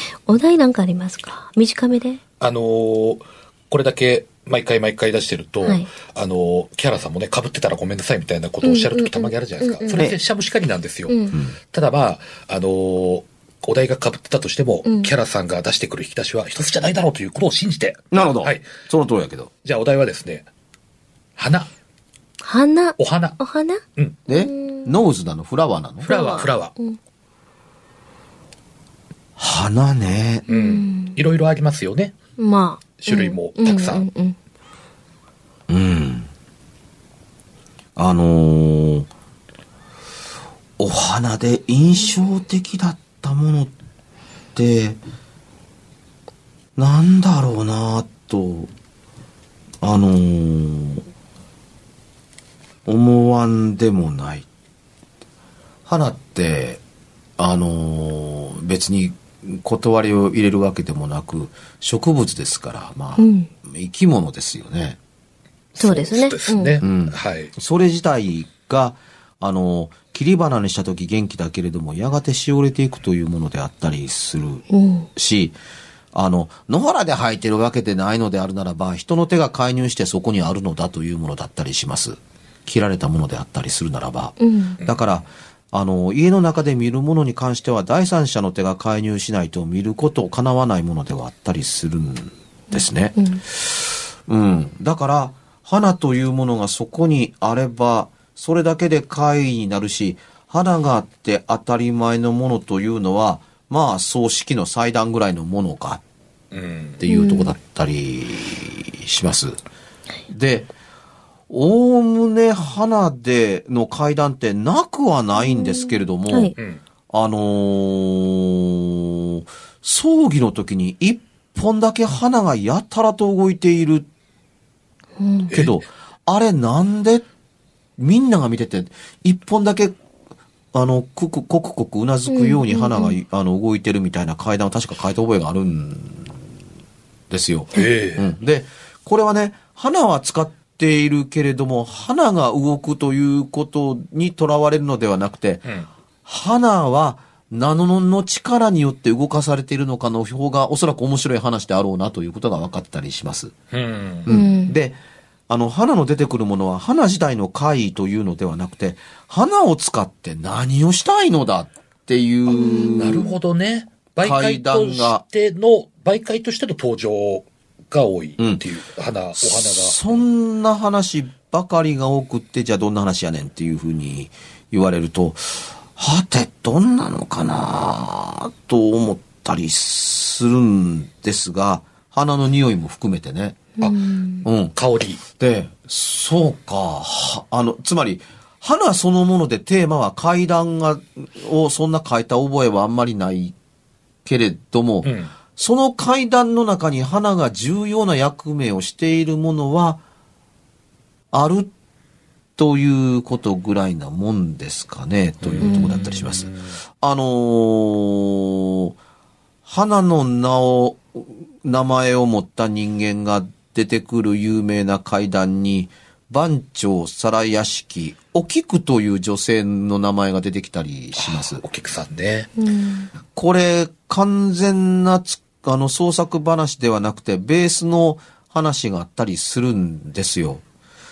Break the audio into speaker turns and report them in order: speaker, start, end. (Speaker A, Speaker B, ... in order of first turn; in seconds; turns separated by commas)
Speaker A: 0.3-2.2, Speaker B: 2.4-18.7, Speaker A: 8.6-10.1, Speaker A: 11.1-11.4, Speaker C: 18.1-19.5, Speaker B: 19.6-20.5, Speaker B: 21.4-21.7, Speaker A: 22.4-24.9, Speaker B: 23.0-23.4, Speaker C: 24.3-26.1, Speaker B: 26.1-26.7, Speaker A: 26.1-27.0, Speaker C: 29.4-30.4, Speaker A: 30.5-31.2, Speaker B: 30.5-32.1, Speaker A: 32.4-34.4, Speaker B: 33.0-34.1, Speaker C: 35.7-36.3, Speaker C: 38.0-39.1, Speaker C: 40.8-43.7, Speaker C: 44.5-45.0, Speaker C: 46.8-48.7, Speaker C: 49.8-51.0, Speaker C: 52.9-54.5, Speaker C: 55.9-56.8, Speaker C: 57.4-65.0, Speaker A: 63.2-63.5, Speaker B: 65.7-67.5, Speaker A: 65.8-66.8, Speaker C: 66.8-74.7, Speaker A: 74.7-75.1, Speaker C: 75.2-75.5, Speaker C: 76.1-106.0, Speaker A: 84.4-84.8, Speaker A: 92.7-93.4, Speaker B: 106.5-107.0, Speaker C: 107.0-109.6, Speaker A: 107.1-107.5, Speaker C: 110.3-110.7, Speaker C: 111.5-116.5, Speaker A: 115.4-116.5, Speaker C: 117.1-124.1, Speaker A: 125.2-125.5, Speaker C: 125.5-127.3, Speaker B: 125.5-125.8, Speaker C: 128.0-130.0, Speaker C: 130.7-136.4, Speaker A: 132.3-133.2, Speaker C: 137.3-145.7, Speaker B: 137.8-138.3, Speaker C: 146.2-153.5, Speaker B: 153.7-154.3, Speaker C: 154.3-155.0, Speaker A: 154.3-154.8, Speaker C: 155.5-163.3, Speaker A: 162.5-163.3, Speaker B: 163.0-170.1, Speaker C: 164.2-165.2, Speaker C: 169.4-183.7, Speaker A: 183.8-184.5, Speaker C: 184.4-184.7, Speaker B: 184.7-185.2, Speaker C: 185.4-193.6, Speaker C: 194.2-200.0, Speaker B: 195.0-195.3, Speaker C: 201.3-201.7, Speaker C: 202.6-206.5, Speaker B: 205.4-206.6, Speaker A: 205.6-205.9, Speaker C: 207.0-209.0, Speaker C: 209.7-221.6, Speaker B: 221.2-222.5, Speaker A: 222.6-223.1, Speaker C: 223.3-230.6